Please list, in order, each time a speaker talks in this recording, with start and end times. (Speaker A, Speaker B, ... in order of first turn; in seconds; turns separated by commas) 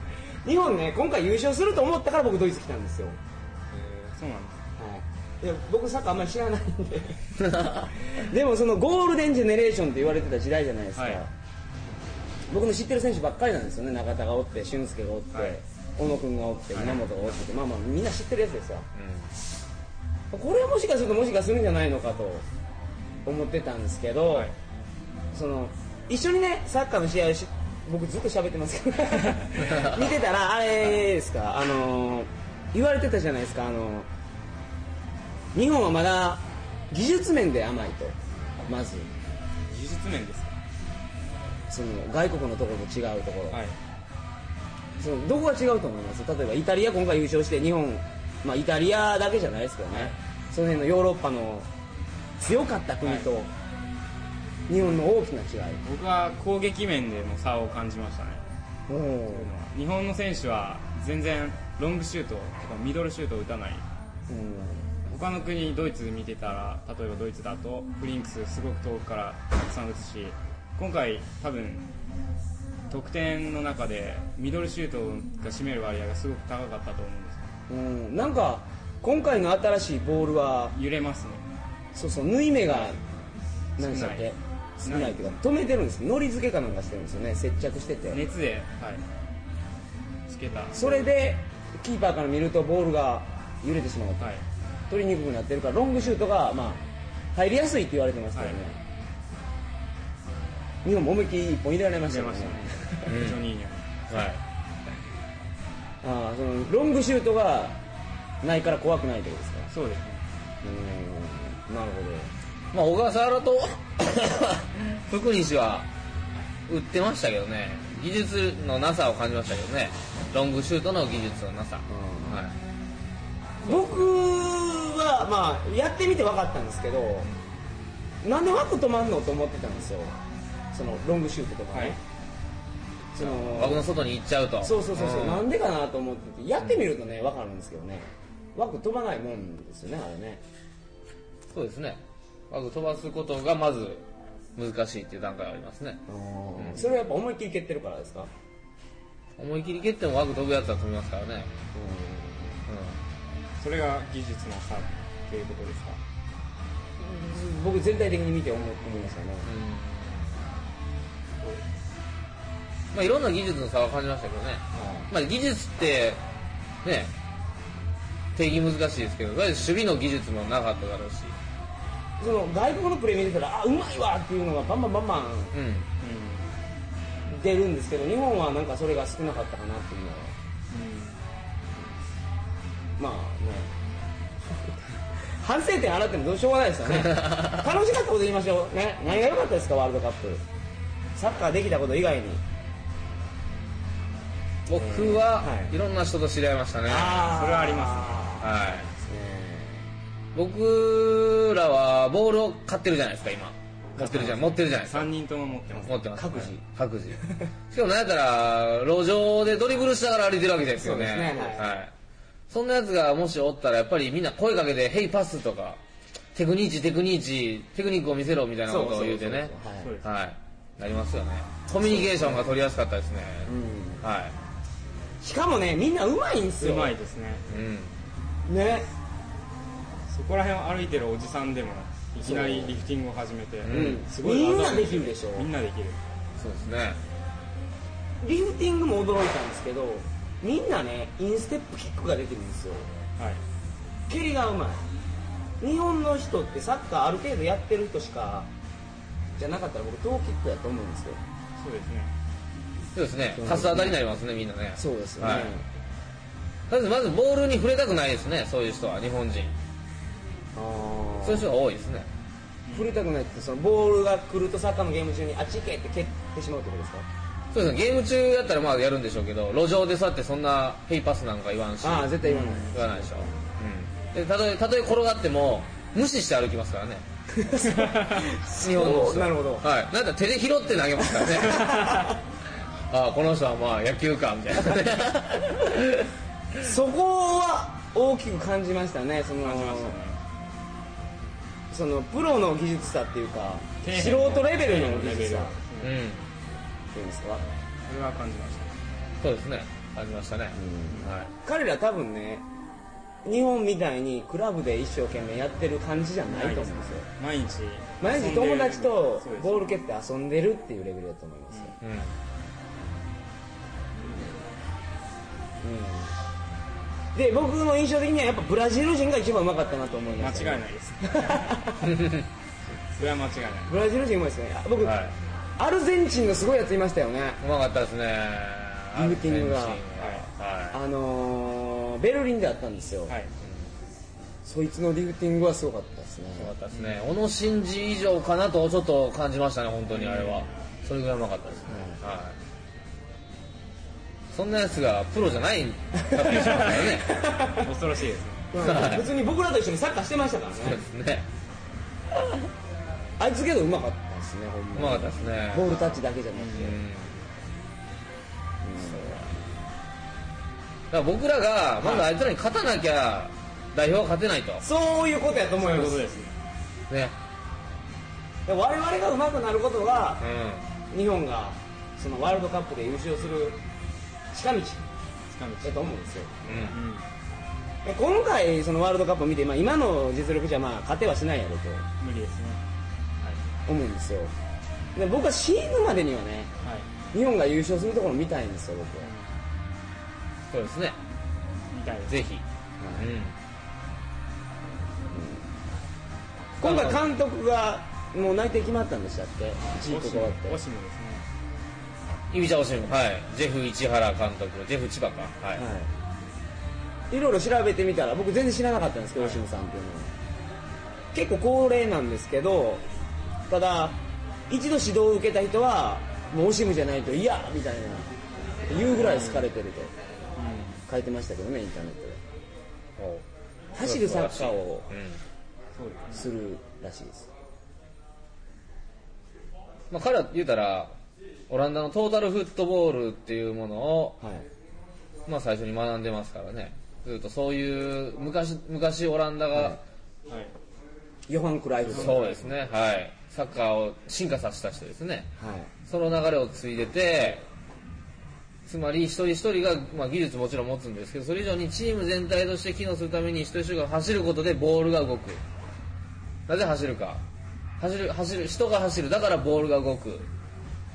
Speaker A: 0.4-3.2, Speaker B: 3.7-4.6, Speaker A: 4.8-11.3, Speaker C: 7.4-8.0, Speaker B: 10.9-11.2, Speaker A: 12.5-18.9, Speaker B: 15.3-15.6, Speaker B: 16.7-17.5, Speaker C: 18.9-19.3, Speaker A: 20.3-22.4, Speaker A: 23.2-24.5, Speaker A: 25.3-34.1, Speaker A: 35.5-38.1, Speaker A: 38.7-39.1, Speaker B: 39.7-40.6, Speaker A: 41.7-43.6, Speaker A: 45.0-51.7, Speaker A: 52.4-53.5, Speaker A: 54.7-55.8, Speaker B: 55.8-58.4, Speaker A: 58.9-59.5, Speaker B: 59.3-63.8, Speaker A: 64.3-65.0, Speaker B: 65.1-71.8, Speaker B: 72.9-77.5, Speaker A: 77.7-80.7, Speaker B: 80.7-81.4, Speaker A: 81.9-83.0, Speaker B: 82.7-83.0, Speaker A: 83.8-88.2, Speaker B: 83.8-84.3, Speaker B: 84.8-85.4, Speaker B: 88.1-89.0, Speaker B: 90.3-91.0, Speaker A: 90.7-94.3, Speaker A: 94.9-96.8, Speaker A: 97.3-98.8, Speaker A: 100.8-103.2, Speaker B: 102.1-104.0, Speaker C: 103.1-103.4, Speaker C: 104.1-104.4, Speaker A: 106.0-107.8, Speaker A: 108.4-109.7, Speaker B: 109.7-110.2, Speaker A: 110.6-112.3, Speaker C: 112.7-115.9, Speaker C: 116.7-122.5, Speaker A: 121.9-122.4, Speaker A: 123.6-127.3, Speaker A: 128.2-130.1, Speaker A: 130.7-132.0, Speaker A: 133.1-133.9, Speaker C: 133.2-135.5, Speaker A: 134.6-140.4, Speaker C: 141.5-146.0, Speaker A: 146.1-148.3, Speaker C: 149.4-151.5, Speaker A: 151.7-152.6, Speaker C: 152.7-153.0, Speaker B: 153.6-156.0, Speaker A: 157.0-159.5, Speaker C: 159.4-160.4, Speaker C: 162.9-166.2, Speaker A: 164.7-165.1, Speaker C: 166.8-167.1, Speaker C: 168.3-171.3, Speaker A: 172.2-175.5, Speaker C: 175.5-175.9, Speaker B: 176.0-176.5, Speaker A: 177.3-180.3, Speaker B: 180.7-181.2, Speaker A: 183.0-183.7, Speaker A: 184.4-190.4, Speaker C: 187.0-187.6, Speaker A: 191.2-192.4, Speaker C: 194.7-197.3, Speaker A: 194.9-195.7, Speaker A: 196.8-199.9, Speaker B: 197.2-198.3, Speaker C: 198.4-198.9, Speaker C: 200.3-205.1, Speaker A: 204.0-204.5, Speaker B: 204.7-206.0, Speaker C: 205.7-207.2, Speaker A: 206.2-206.6, Speaker C: 207.7-211.9, Speaker A: 210.8-211.7, Speaker B: 211.3-211.7, Speaker C: 212.5-215.8, Speaker C: 216.3-224.3, Speaker A: 218.7-219.9, Speaker B: 219.8-220.1, Speaker A: 221.7-222.6, Speaker A: 223.5-224.0, Speaker A: 225.2-226.9, Speaker B: 226.6-227.4, Speaker C: 227.5-227.9, Speaker A: 228.5-228.9, Speaker B: 230.1-236.0, Speaker A: 232.2-232.7, Speaker C: 233.6-234.0, Speaker A: 233.7-235.5, Speaker C: 236.4-237.0, Speaker A: 238.2-242.9, Speaker A: 244.1-244.8, Speaker A: 245.6-248.5, Speaker A: 249.4-251.2, Speaker B: 251.6-252.1, Speaker C: 252.9-255.5, Speaker A: 253.4-254.0, Speaker A: 254.8-255.6, Speaker C: 256.7-259.6, Speaker A: 260.5-261.5, Speaker C: 261.2-262.1, Speaker B: 262.6-263.1, Speaker A: 262.7-267.1, Speaker C: 267.5-272.2, Speaker A: 271.8-273.4, Speaker B: 272.2-272.7, Speaker C: 272.7-277.0, Speaker A: 277.3-279.6, Speaker B: 277.7-278.2, Speaker C: 278.6-282.1, Speaker A: 281.2-282.1, Speaker C: 282.9-286.1, Speaker A: 286.6-289.9, Speaker B: 289.4-290.2, Speaker A: 291.7-295.5, Speaker B: 293.8-296.0, Speaker C: 295.8-296.3, Speaker A: 296.9-297.4, Speaker B: 297.9-298.7, Speaker C: 299.2-301.3, Speaker A: 300.5-302.4, Speaker A: 303.2-307.1, Speaker B: 306.3-309.8, Speaker A: 308.0-311.8, Speaker C: 311.8-312.1, Speaker A: 315.6-316.1, Speaker A: 317.1-321.9, Speaker B: 320.2-321.4, Speaker C: 321.8-322.3, Speaker B: 322.9-323.7, Speaker A: 323.7-325.0, Speaker C: 324.8-325.1, Speaker A: 325.6-327.4, Speaker C: 327.4-330.8, Speaker A: 328.9-329.8, Speaker B: 330.0-330.3, Speaker A: 330.7-333.1, Speaker C: 333.4-333.7, Speaker A: 334.4-336.5, Speaker C: 336.4-342.4, Speaker B: 336.7-337.1, Speaker B: 339.9-340.5, Speaker A: 341.7-342.0, Speaker C: 344.3-347.1, Speaker A: 346.0-347.7, Speaker B: 346.4-348.5, Speaker A: 348.5-350.8, Speaker C: 348.6-349.1, Speaker C: 350.6-351.3, Speaker A: 353.2-356.8, Speaker C: 354.8-355.8, Speaker B: 356.3-356.7, Speaker C: 356.5-357.3, Speaker A: 358.6-359.2, Speaker C: 358.8-359.3, Speaker C: 360.9-364.6, Speaker A: 364.6-366.1, Speaker B: 365.6-366.3, Speaker C: 366.9-367.1, Speaker A: 368.5-370.2, Speaker C: 370.2-370.7, Speaker A: 370.9-373.6, Speaker A: 374.3-374.8, Speaker B: 375.3-375.9, Speaker A: 375.6-376.3, Speaker B: 376.4-377.1, Speaker C: 376.4-376.8, Speaker A: 377.8-381.8, Speaker B: 382.0-382.6, Speaker B: 383.2-383.5, Speaker A: 383.7-384.3, Speaker A: 384.9-386.5, Speaker B: 386.6-386.9, Speaker A: 387.1-389.1, Speaker B: 389.0-389.3, Speaker C: 390.5-391.0, Speaker B: 391.7-392.2, Speaker C: 392.1-392.4, Speaker A: 392.8-393.1, Speaker C: 393.0-393.4, Speaker A: 395.1-395.4, Speaker C: 396.6-397.1, Speaker A: 396.6-400.6, Speaker B: 399.9-401.2, Speaker C: 402.3-405.6, Speaker A: 405.6-405.9, Speaker A: 407.1-410.1, Speaker A: 411.1-412.8, Speaker A: 413.5-418.1, Speaker A: 418.7-419.9, Speaker B: 418.9-419.5, Speaker B: 420.4-420.8, Speaker A: 420.9-422.2, Speaker C: 423.0-423.2, Speaker A: 423.7-424.9, Speaker C: 423.8-425.2, Speaker B: 425.8-426.3, Speaker A: 426.1-427.3, Speaker C: 429.9-430.9, Speaker C: 431.5-434.2, Speaker A: 434.2-434.4, Speaker C: 435.3-439.8, Speaker B: 440.3-440.5, Speaker A: 441.3-442.5, Speaker C: 441.9-445.3, Speaker B: 441.9-442.3, Speaker A: 445.4-445.7, Speaker C: 445.9-447.4, Speaker C: 448.6-455.4, Speaker C: 456.5-457.2, Speaker C: 457.8-460.3